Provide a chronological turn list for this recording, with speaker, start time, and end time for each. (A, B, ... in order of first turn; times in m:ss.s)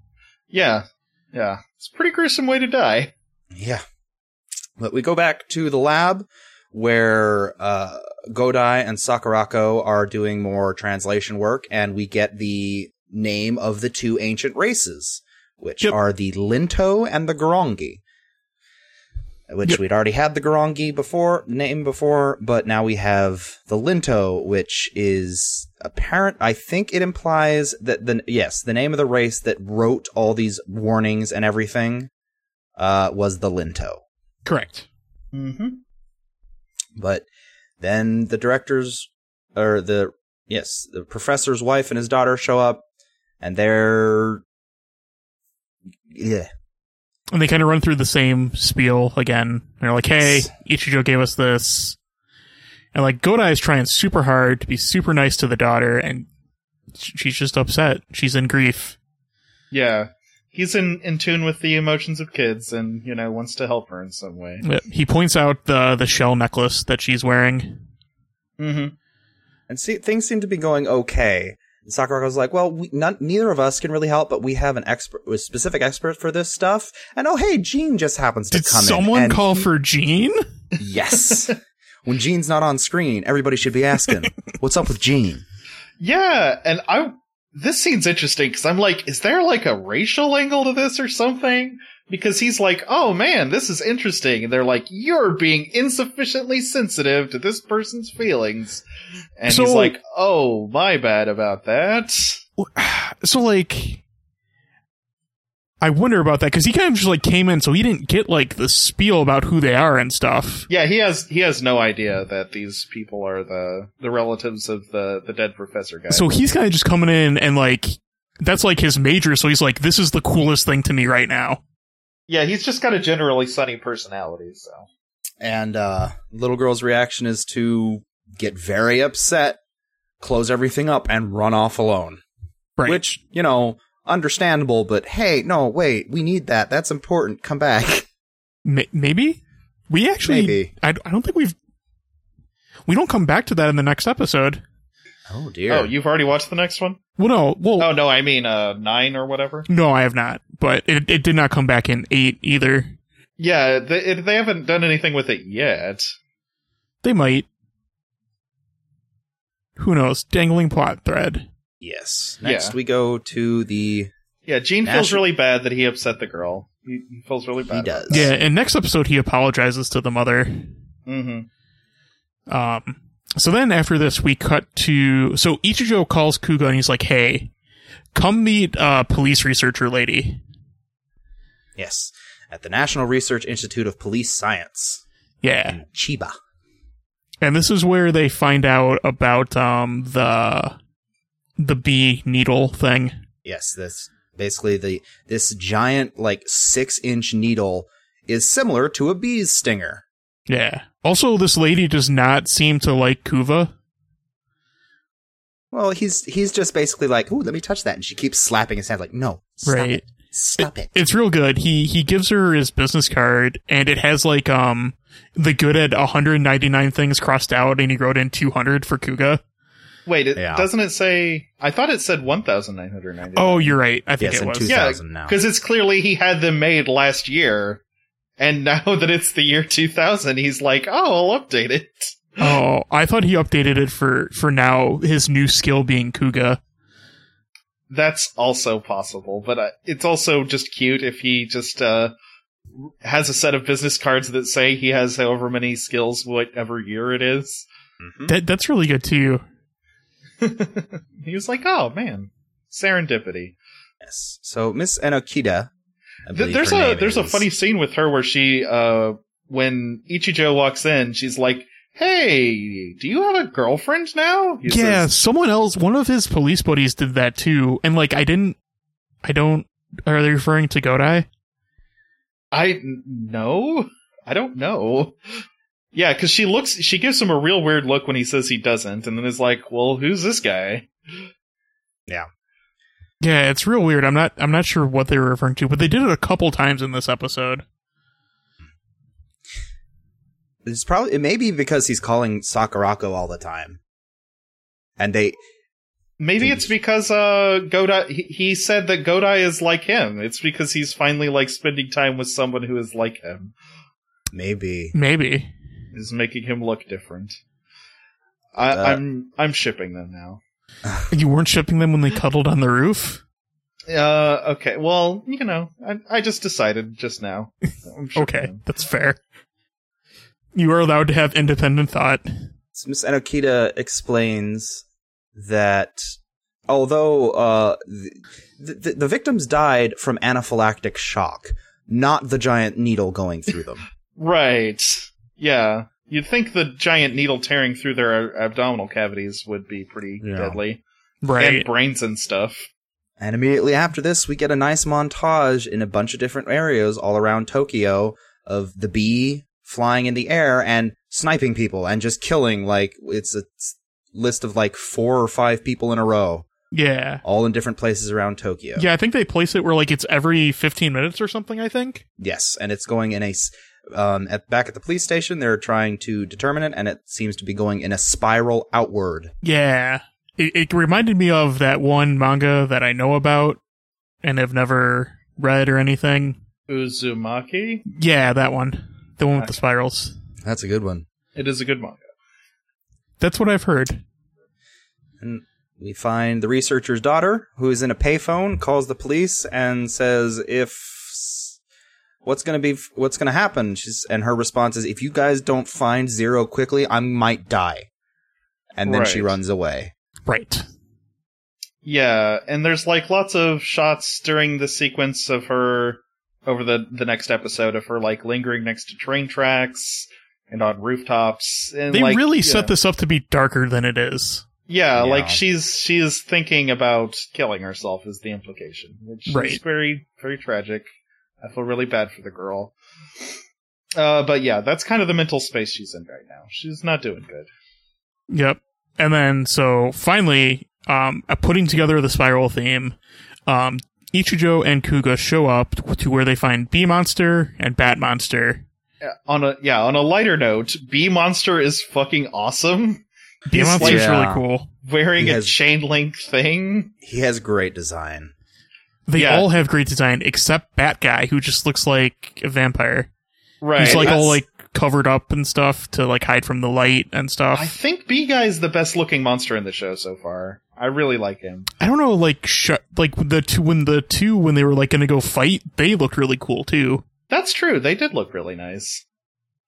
0:00.5-0:03.1 A
0:03.5-0:03.8 B
0:04.8-0:18.0 B
0:19.5-0:32.1 B
0:32.8-0:34.0 B
0:34.4-0:34.9 C
0:35.3-0:35.8 A
0:37.0-0:37.3 B
0:37.8-0:42.8 B
0:43.4-0:44.4 B
0:46.1-0:46.5 B
0:47.3-0:52.0 C
0:50.2-0:50.5 B
0:52.9-0:56.3 C
0:57.0-0:59.0 C
0:59.7-1:04.6 A
1:04.6-1:07.8 C
1:08.6-1:09.0 A
1:09.7-1:19.7 B
1:18.5-1:20.4 C
1:20.8-1:25.4 B
1:26.0-1:38.8 A
1:39.4-1:42.4 A
1:39.5-1:40.0 C
1:42.6-1:44.0 C
1:45.8-1:50.7 C
1:50.7-1:56.3 A
1:56.1-2:01.6 C
2:02.3-2:04.9 A
2:05.4-2:09.6 B
2:10.2-2:12.2 B
2:12.8-2:13.0 C
2:12.8-2:18.1 B
2:18.6-2:21.6 C
2:20.2-2:20.7 B
2:22.9-2:24.6 C
2:25.3-2:25.9 B
2:25.7-2:27.0 A
2:27.2-2:27.9 C
2:27.8-2:29.7 A
2:29.7-2:33.0 C
2:33.4-2:36.1 A
2:37.0-2:37.5 C
2:39.8-2:41.5 C
2:41.8-2:44.1 B
2:42.4-2:42.8 A
2:44.5-2:48.3 A
2:44.8-2:45.2 B
2:47.7-2:48.3 B
2:48.1-2:50.7 C
2:51.1-2:51.5 A
2:52.5-2:57.5 C
2:58.1-3:00.4 C
3:01.8-3:05.0 B
3:05.4-3:05.8 C
3:05.7-3:06.3 B
3:07.4-3:10.8 C
3:11.6-3:13.1 C
3:13.4-3:20.0 B
3:20.5-3:23.7 C
3:25.7-3:31.0 B
3:29.6-3:30.0 C
3:30.6-3:39.4 C
3:40.1-3:43.8 A
3:40.4-3:40.7 B
3:43.4-3:44.7 C
3:44.2-3:45.4 B
3:44.6-3:47.8 A
3:48.4-3:52.6 A
3:52.4-3:56.6 C
3:57.9-4:02.1 A
4:02.8-4:07.7 A
4:08.0-4:08.3 B
4:08.3-4:09.4 C
4:10.4-4:13.6 A
4:14.0-4:15.7 B
4:16.3-4:17.5 B
4:16.3-4:25.1 A
4:24.7-4:28.6 C
4:29.2-4:31.3 C
4:32.5-4:35.2 A
4:35.9-4:40.9 A
4:43.2-4:47.6 C
4:50.6-4:53.8 B
4:55.0-4:55.4 B
4:56.2-5:03.5 A
4:56.4-4:56.7 B
5:04.3-5:05.0 B
5:04.9-5:05.5 C
5:05.9-5:07.4 A
5:08.6-5:10.4 A
5:08.7-5:09.0 B
5:11.1-5:13.2 C
5:13.9-5:18.6 A
5:18.2-5:19.2 C
5:20.6-5:22.3 C
5:22.7-5:24.8 B
5:25.4-5:26.1 B
5:26.7-5:33.8 B
5:34.2-5:40.8 A
5:40.2-5:40.6 B
5:41.2-5:41.7 C
5:41.4-5:42.7 A
5:43.2-5:56.5 B
5:56.7-5:57.2 C
5:57.2-5:58.9 B
5:58.8-6:02.0 C
6:02.2-6:09.3 B
6:09.4-6:13.6 C
6:14.2-6:16.4 C
6:16.7-6:17.8 A
6:17.9-6:20.2 C
6:20.4-6:21.0 B
6:21.4-6:22.0 A
6:23.2-6:24.0 C
6:25.2-6:31.6 B
6:32.2-6:37.9 B
6:38.8-6:39.9 B
6:38.8-6:39.4 A
6:40.3-6:40.6 C
6:41.8-6:52.7 A
6:51.9-6:54.4 C
6:54.7-7:00.9 A
6:55.0-6:55.4 B
6:59.3-6:59.6 C
7:01.4-7:03.4 A
7:04.0-7:07.5 A
7:08.3-7:13.0 C
7:13.5-7:18.6 C
7:19.0-7:24.1 A
7:23.5-7:24.7 C
7:23.8-7:24.4 B
7:24.8-7:26.9 A
7:25.2-7:25.5 B
7:27.0-7:28.3 B
7:29.1-7:33.1 C
7:29.2-7:29.5 A
7:33.6-7:34.4 A
7:33.8-7:37.7 C
7:37.6-7:41.7 A
7:41.8-7:47.0 C
7:47.3-7:49.0 A